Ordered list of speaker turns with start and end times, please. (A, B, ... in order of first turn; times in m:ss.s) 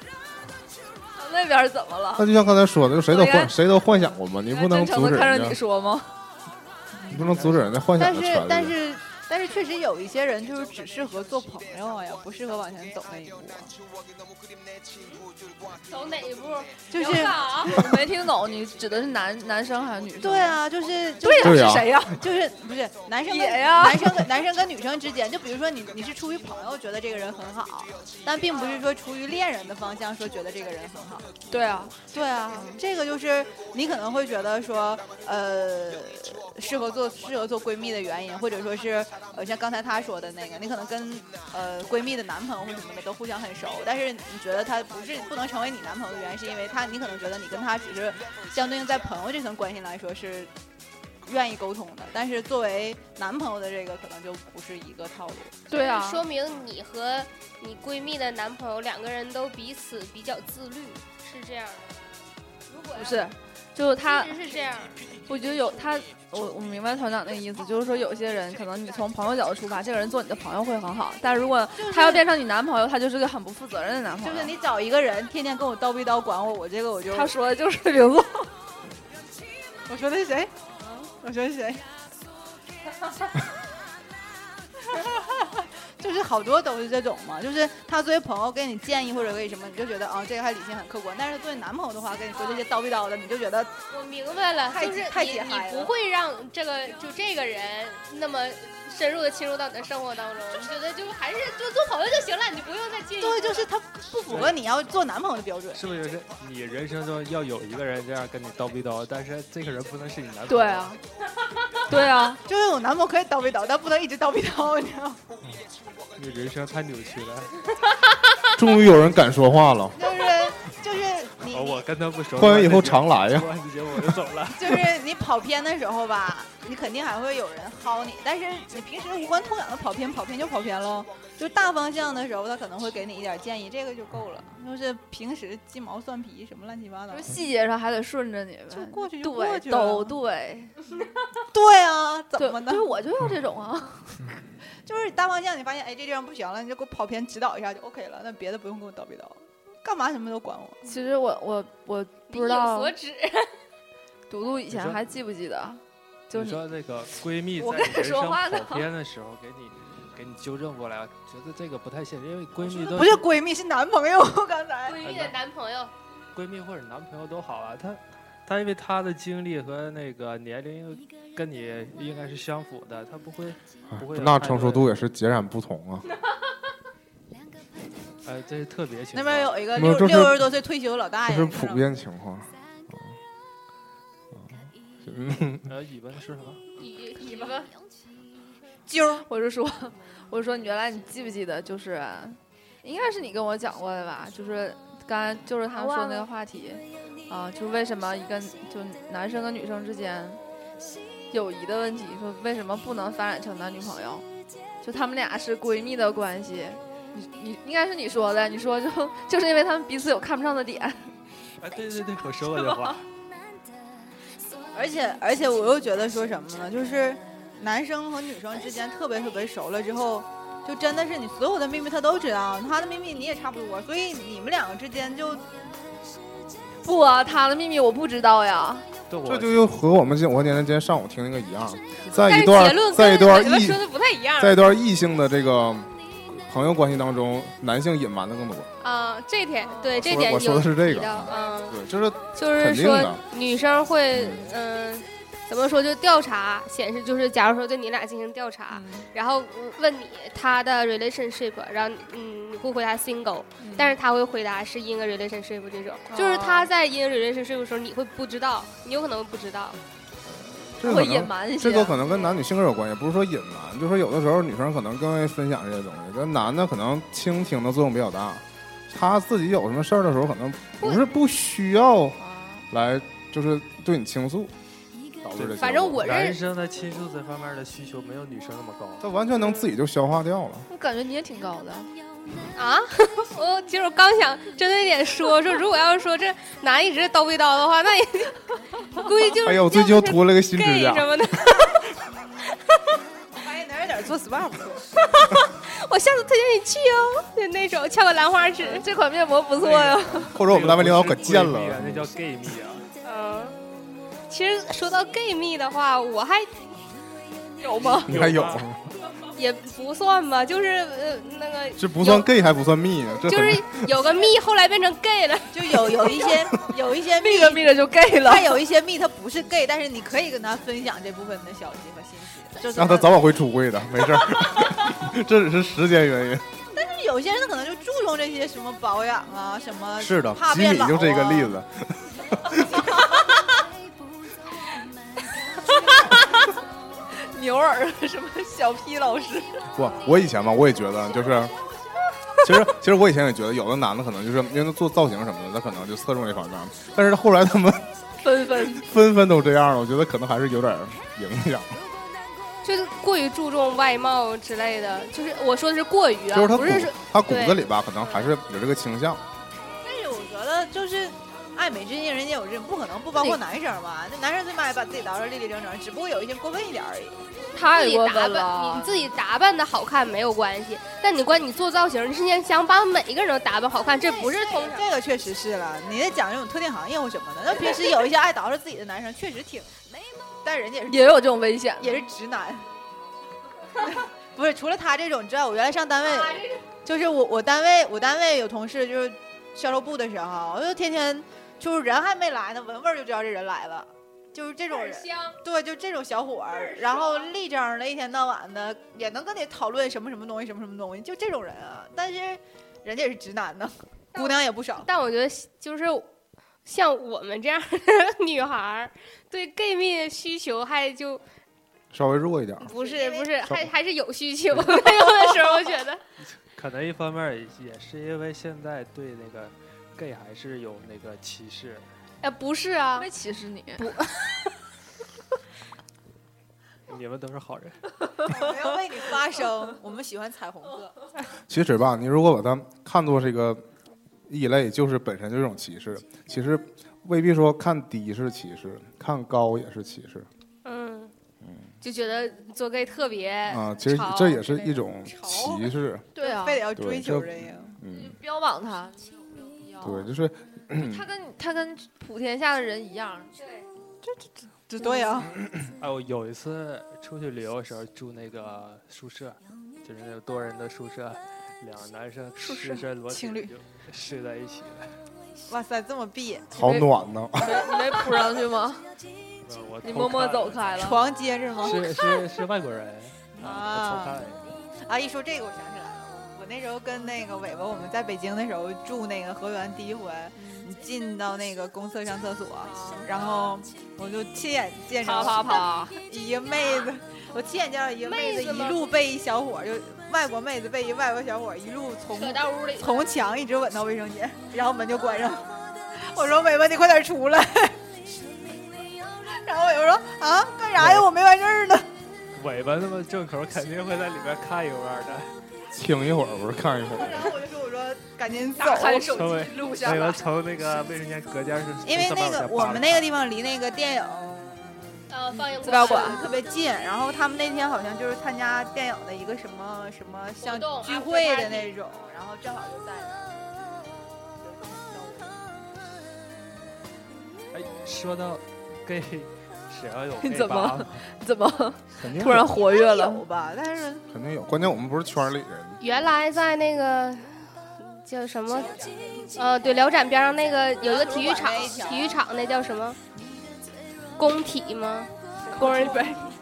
0:01.1-0:02.3 A
0:02.2-0:05.6 B
0:03.1-0:03.5 A
0:04.5-0:06.1 A
0:07.1-0:08.7 B
0:07.1-0:07.7 C
0:08.0-0:13.7 D
0:15.9-0:17.8 E
0:16.9-0:17.7 D
0:17.6-0:20.6 A
0:20.2-0:31.3 D
0:21.2-0:22.2 A
0:21.4-0:22.1 B
0:23.2-0:24.3 A
0:28.5-0:28.8 E
0:31.5-0:32.0 A
0:32.1-0:50.5 D
0:51.2-0:55.6 D
0:55.7-0:56.2 A
0:55.7-1:02.0 E
1:02.7-1:03.3 E
1:02.9-1:04.4 A
1:04.0-1:05.0 E
1:05.3-1:14.5 A
1:11.8-1:12.2 D
1:14.2-1:17.3 D
1:17.1-1:18.5 A
1:19.9-1:21.8 D
1:24.9-1:33.8 D
1:32.3-1:32.6 E
1:33.9-1:43.7 E
1:34.7-1:35.9 D
1:43.2-1:45.8 D
1:44.3-1:44.6 C
1:45.7-1:50.9 C
1:50.5-1:51.0 A
1:51.9-1:52.4 A
1:52.4-1:55.2 D
1:56.2-1:57.5 C
1:58.6-2:00.1 B
1:59.9-2:01.8 D
2:01.5-2:04.9 C
2:02.4-2:03.5 B
2:04.5-2:17.3 D
2:17.1-2:20.8 A
2:18.7-2:20.2 D
2:21.5-2:22.9 D
2:22.4-2:24.3 A
2:24.8-2:30.8 D
2:30.8-2:32.9 A
2:32.3-2:33.6 E
2:34.3-2:36.6 A
2:34.7-2:35.0 C
2:36.3-2:43.3 C
2:37.5-2:38.9 A
2:42.6-2:45.0 D
2:44.8-2:45.9 E
2:45.0-2:45.3 C
2:46.3-2:54.9 C
2:53.9-2:56.0 B
2:58.2-2:59.7 C
2:59.1-3:01.9 D
2:59.7-3:00.5 B
3:01.2-3:03.1 B
3:04.3-3:05.7 B
3:05.6-3:06.6 C
3:06.8-3:07.7 E
3:08.9-3:09.2 D
3:09.2-3:20.4 A
3:15.7-3:16.3 E
3:21.3-3:24.2 A
3:24.8-3:31.1 A
3:31.6-3:33.0 C
3:32.6-3:32.9 A
3:34.7-3:45.4 D
3:46.8-3:48.8 A
3:49.1-3:49.6 C
3:49.2-3:53.8 B
3:52.2-3:54.6 E
3:54.4-3:58.7 B
3:58.8-4:01.8 E
3:59.9-4:03.2 B
4:02.4-4:19.8 E
4:04.1-4:04.5 B
4:08.7-4:09.0 A
4:13.6-4:14.0 A
4:16.1-4:16.7 A
4:20.3-4:32.2 B
4:20.8-4:22.0 A
4:22.1-4:22.4 E
4:32.2-4:32.7 A
4:32.7-4:34.5 B
4:35.2-4:36.1 B
4:35.4-4:39.1 C
4:35.6-4:36.4 E
4:39.0-4:40.7 B
4:40.7-4:41.9 A
4:42.5-4:51.8 E
4:49.4-4:51.6 B
4:53.3-4:54.9 D
4:55.0-4:58.8 E
4:58.6-5:00.3 A
4:59.6-5:02.9 C
5:00.3-5:02.1 B
5:03.0-5:03.6 E
5:04.3-5:06.7 E
5:07.6-5:08.1 A
5:07.8-5:08.7 C
5:08.1-5:08.9 B
5:09.3-5:12.3 E
5:11.8-5:13.9 B
5:13.2-5:16.2 E
5:15.5-5:23.2 D
5:17.1-5:18.6 A
5:22.7-5:26.5 B
5:26.7-5:31.6 D
5:30.0-5:32.8 B
5:37.2-5:39.6 A
5:39.7-5:41.5 B
5:42.4-5:47.9 B
5:48.2-5:48.8 A
5:48.6-5:51.8 B
5:52.6-5:58.3 E
5:56.3-5:59.2 B
5:59.8-6:07.2 D
6:07.5-6:09.0 A
6:07.5-6:14.9 E
6:14.2-6:19.7 D
6:20.4-6:21.2 D
6:20.9-6:22.0 A
6:21.8-6:22.7 D
6:23.8-6:44.9 D
6:26.0-6:26.6 E
6:34.7-6:35.4 E
6:36.5-6:37.3 E
6:44.1-6:46.1 E
6:46.6-6:51.2 E
6:51.9-6:52.7 B
6:52.6-6:56.0 E
6:52.7-6:53.3 D
6:56.2-7:01.8 C
7:02.2-7:03.1 E
7:03.0-7:03.9 A
7:03.8-7:04.3 E
7:06.9-7:07.8 C
7:08.2-7:10.9 D
7:11.5-7:13.6 B
7:14.3-7:20.3 B
7:20.6-7:21.1 E
7:21.8-7:25.5 E
7:23.5-7:26.0 B
7:26.1-7:26.7 A
7:26.2-7:27.8 D
7:26.8-7:28.1 B
7:27.9-7:30.1 A
7:29.8-7:31.0 B
7:30.7-7:33.3 A
7:33.4-7:33.7 E
7:34.0-7:35.3 D
7:34.8-7:35.1 A
7:35.8-7:45.0 C
7:42.4-7:42.8 A
7:43.1-7:43.5 D
7:45.5-7:46.6 D
7:46.5-7:47.6 B
7:46.6-7:48.9 A
7:49.4-7:50.8 C
7:49.8-7:51.0 A
7:50.8-7:52.0 D
7:51.6-7:54.4 C
7:53.4-7:54.3 D
7:54.8-8:17.8 D
8:00.4-8:00.6 A
8:02.8-8:03.3 A
8:05.0-8:06.0 A
8:08.0-8:08.9 E
8:12.1-8:13.1 E
8:19.3-8:21.9 D
8:20.8-8:21.0 C
8:22.3-8:25.3 C
8:25.7-8:27.4 B
8:26.9-8:29.2 D
8:28.6-8:30.2 A
8:29.1-8:33.1 C
8:31.8-8:43.2 D
8:35.1-8:36.2 E
8:35.6-8:36.2 A
8:40.4-8:42.1 E
8:44.4-8:45.4 D
8:47.5-8:51.0 C
8:50.2-8:53.2 A
8:52.0-8:52.5 B
8:52.5-8:54.0 D
8:54.1-8:55.8 B
8:55.8-9:03.0 E
8:58.5-9:00.1 D
9:00.8-9:02.2 D
9:04.2-9:06.1 E
9:05.4-9:06.1 D
9:05.6-9:06.1 A